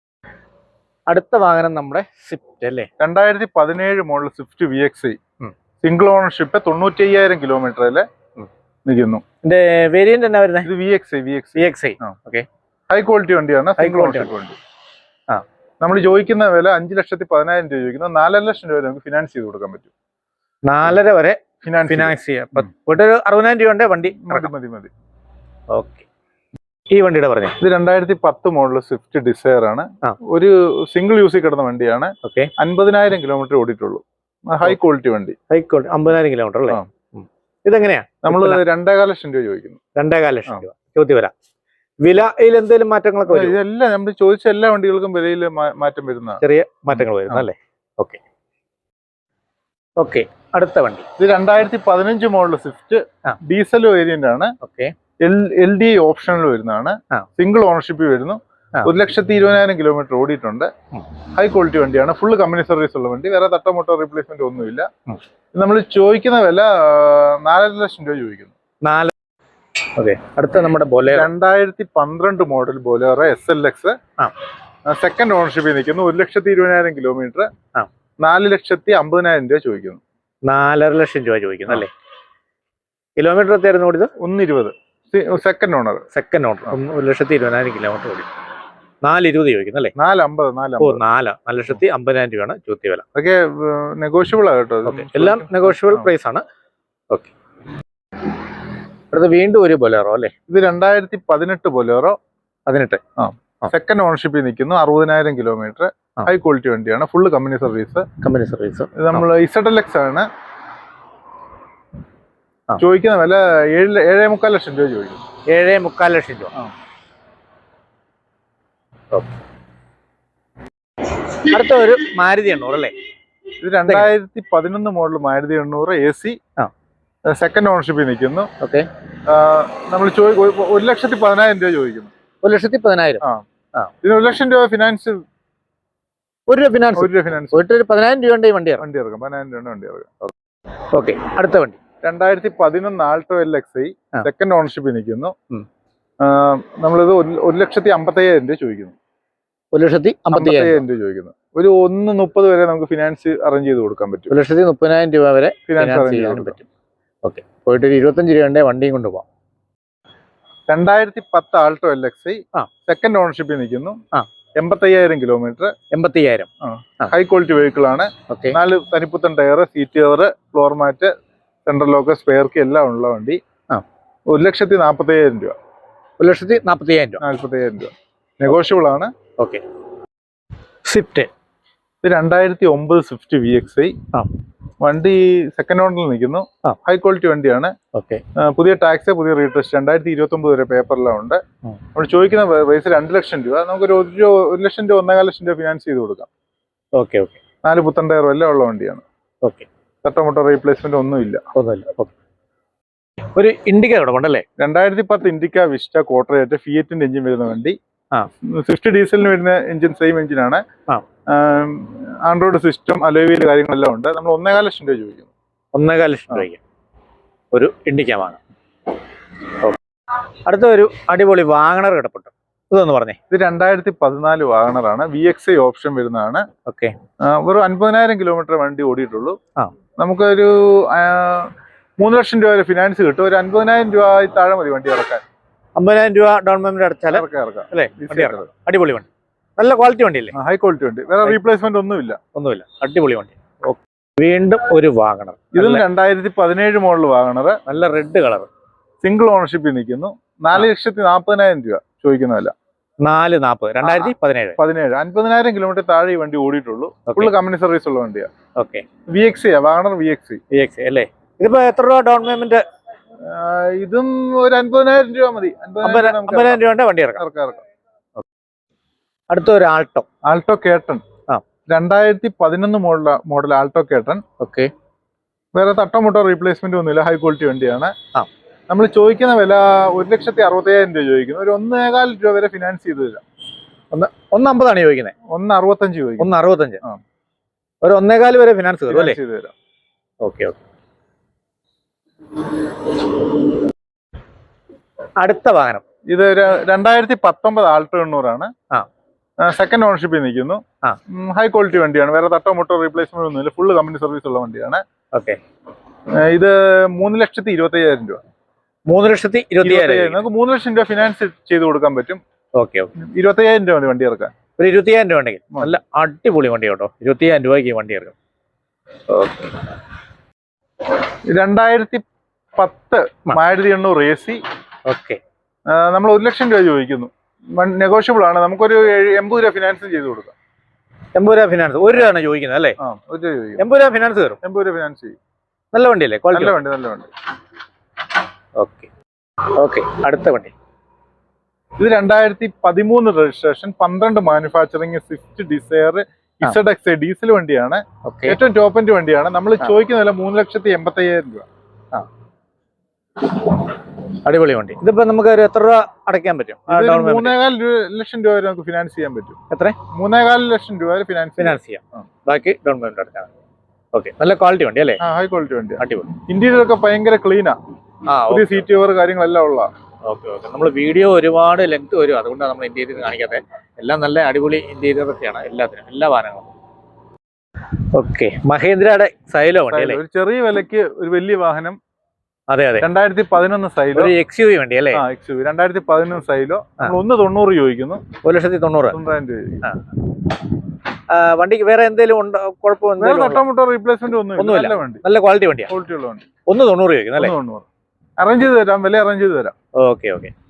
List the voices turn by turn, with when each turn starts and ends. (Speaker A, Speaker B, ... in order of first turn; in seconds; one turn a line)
Speaker A: 1.1-2.9
Speaker B: 3.0-5.2
Speaker B: 5.8-8.1
Speaker B: 8.8-9.2
Speaker A: 9.4-10.7
Speaker B: 10.6-12.1
Speaker A: 11.5-12.4
Speaker B: 12.9-14.6
Speaker A: 13.8-14.3
Speaker B: 15.8-19.9
Speaker A: 20.6-24.5
Speaker B: 21.6-22.1
Speaker B: 24.2-24.9
Speaker A: 25.7-26.0
Speaker A: 26.9-27.6
Speaker B: 27.6-35.4
Speaker A: 32.2-32.5
Speaker A: 35.5-38.6
Speaker B: 38.2-39.8
Speaker A: 40.0-41.3
Speaker A: 42.0-43.6
Speaker B: 43.3-47.5
Speaker A: 46.4-48.2
Speaker A: 50.0-51.0
Speaker B: 51.2-54.5
Speaker A: 54.6-54.9
Speaker B: 55.2-60.7
Speaker B: 61.3-64.9
Speaker B: 65.5-68.5
Speaker A: 68.8-69.1
Speaker A: 69.9-71.3
Speaker B: 71.1-74.0
Speaker B: 74.9-77.5
Speaker B: 78.2-80.0
Speaker A: 80.4-81.9
Speaker A: 83.2-84.1
Speaker B: 84.2-86.0
Speaker A: 86.1-88.3
Speaker A: 89.0-89.9
Speaker B: 90.0-91.0
Speaker A: 90.8-93.0
Speaker B: 93.1-96.1
Speaker A: 94.9-96.4
Speaker A: 99.1-100.3
Speaker B: 100.5-102.2
Speaker A: 102.7-103.0
Speaker B: 103.2-108.1
Speaker A: 108.2-109.2
Speaker B: 109.0-110.3
Speaker B: 112.8-115.2
Speaker A: 115.5-116.5
Speaker A: 121.2-122.9
Speaker B: 123.6-126.4
Speaker B: 127.3-128.5
Speaker A: 128.6-128.9
Speaker B: 129.3-132.1
Speaker A: 132.4-133.9
Speaker B: 134.0-135.2
Speaker A: 136.5-138.9
Speaker B: 136.9-137.6
Speaker B: 138.8-140.1
Speaker A: 140.9-141.8
Speaker B: 142.0-145.3
Speaker B: 146.2-148.9
Speaker A: 149.7-150.8
Speaker B: 150.3-154.3
Speaker A: 154.3-156.6
Speaker B: 155.7-156.6
Speaker A: 157.2-159.2
Speaker B: 160.7-164.0
Speaker B: 164.6-165.7
Speaker A: 165.9-166.5
Speaker B: 166.6-171.1
Speaker A: 168.3-168.6
Speaker B: 171.7-173.4
Speaker B: 174.3-175.5
Speaker A: 176.2-177.2
Speaker B: 177.2-179.1
Speaker A: 180.8-181.3
Speaker B: 182.0-184.0
Speaker B: 184.8-187.7
Speaker A: 187.9-188.2
Speaker B: 188.3-191.4
Speaker B: 191.9-196.3
Speaker A: 196.9-197.4
Speaker B: 197.6-199.0
Speaker B: 200.0-201.4
Speaker A: 201.5-202.1
Speaker A: 203.3-204.4
Speaker B: 204.6-207.8
Speaker B: 208.5-210.6
Speaker B: 211.3-215.3
Speaker A: 215.7-216.6
Speaker A: 217.5-218.4
Speaker A: 220.4-223.2
Speaker B: 223.3-226.4
Speaker A: 226.7-226.9
Speaker B: 227.2-229.4
Speaker B: 230.0-235.2
Speaker A: 235.8-240.3
Speaker B: 237.1-238.5
Speaker B: 240.3-242.2
Speaker A: 242.3-245.8
Speaker B: 245.5-247.6
Speaker A: 247.7-248.5
Speaker B: 249.0-252.5
Speaker A: 253.0-254.6
Speaker B: 253.8-258.3
Speaker A: 257.1-257.3
Speaker A: 258.6-258.8
Speaker B: 259.1-260.4
Speaker A: 260.5-262.6
Speaker B: 263.2-267.6
Speaker A: 265.8-267.2
Speaker A: 269.3-270.1
Speaker B: 270.2-271.0
Speaker B: 271.7-274.2
Speaker A: 274.4-274.7
Speaker B: 275.5-277.9
Speaker B: 278.7-283.2
Speaker A: 283.9-285.1
Speaker B: 285.3-287.0
Speaker A: 286.2-286.8
Speaker A: 287.8-289.2
Speaker B: 288.9-289.5
Speaker A: 290.2-290.6
Speaker A: 295.2-295.8
Speaker B: 296.1-298.5
Speaker B: 299.4-304.8
Speaker A: 305.1-305.4
Speaker B: 306.2-308.2
Speaker A: 308.9-310.2
Speaker B: 309.6-312.2
Speaker A: 312.6-312.9
Speaker B: 313.0-314.3
Speaker A: 314.6-318.1
Speaker A: 319.1-319.5
Speaker B: 321.3-322.0
Speaker B: 322.6-324.4
Speaker A: 324.9-325.2
Speaker B: 325.7-330.3
Speaker A: 331.1-332.8
Speaker B: 332.8-333.6
Speaker A: 333.6-334.4
Speaker B: 334.4-335.1
Speaker A: 335.7-336.6
Speaker B: 336.3-337.1
Speaker A: 338.6-338.9
Speaker A: 339.5-340.5
Speaker B: 341.8-351.4
Speaker A: 348.0-348.4
Speaker A: 353.3-357.4
Speaker B: 356.7-359.4
Speaker A: 359.5-359.8
Speaker B: 359.9-361.6
Speaker A: 361.4-363.3
Speaker A: 363.9-365.0
Speaker B: 365.0-367.6
Speaker A: 365.8-366.1
Speaker A: 368.1-368.7
Speaker B: 368.3-369.7
Speaker A: 370.0-376.5
Speaker A: 377.9-380.0
Speaker B: 379.7-381.8
Speaker A: 382.5-382.9
Speaker B: 382.8-384.1
Speaker A: 383.9-385.0
Speaker B: 384.9-388.0
Speaker A: 388.2-389.0
Speaker B: 388.9-389.6
Speaker A: 389.6-389.9
Speaker A: 391.1-393.4
Speaker B: 393.0-395.0
Speaker A: 394.4-395.7
Speaker B: 395.7-396.2
Speaker A: 396.4-397.4
Speaker B: 397.2-397.6
Speaker B: 398.2-399.5
Speaker A: 399.8-400.3